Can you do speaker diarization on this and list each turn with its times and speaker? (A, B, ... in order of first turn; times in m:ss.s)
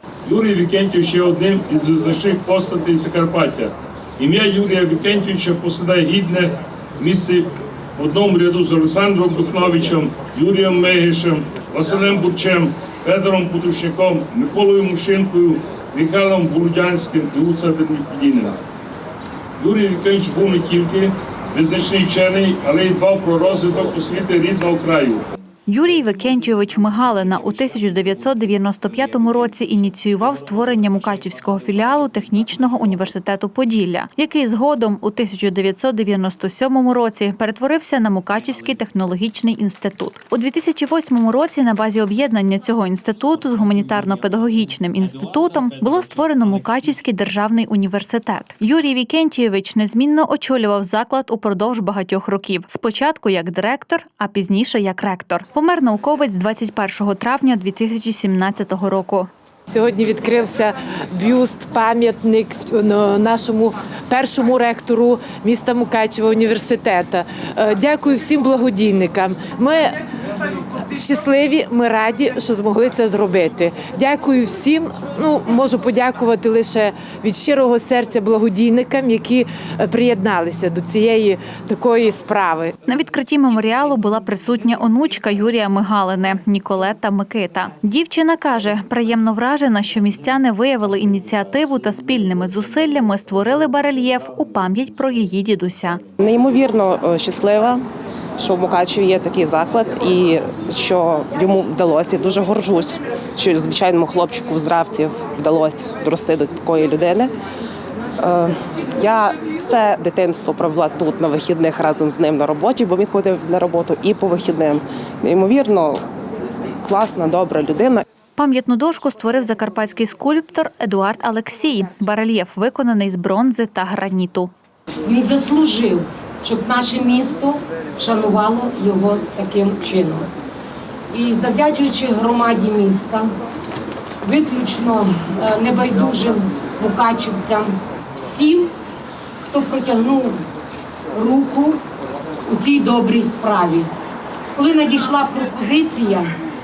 0:00.2-0:18.6 A
0:19.6-0:25.2 A
0:25.7-0:59.3 B
0:59.7-1:22.7 C
1:22.8-1:36.0 B
1:36.2-1:37.8 D
1:38.4-1:47.3 D
1:48.2-1:56.0 D
1:56.8-1:58.0 D
1:58.4-2:04.5 B
2:05.0-2:10.3 E
2:11.1-2:13.3 E
2:14.2-2:18.7 E
2:19.5-2:20.4 E
2:21.1-2:21.8 E
2:22.4-2:23.9 E
2:24.5-2:26.3 E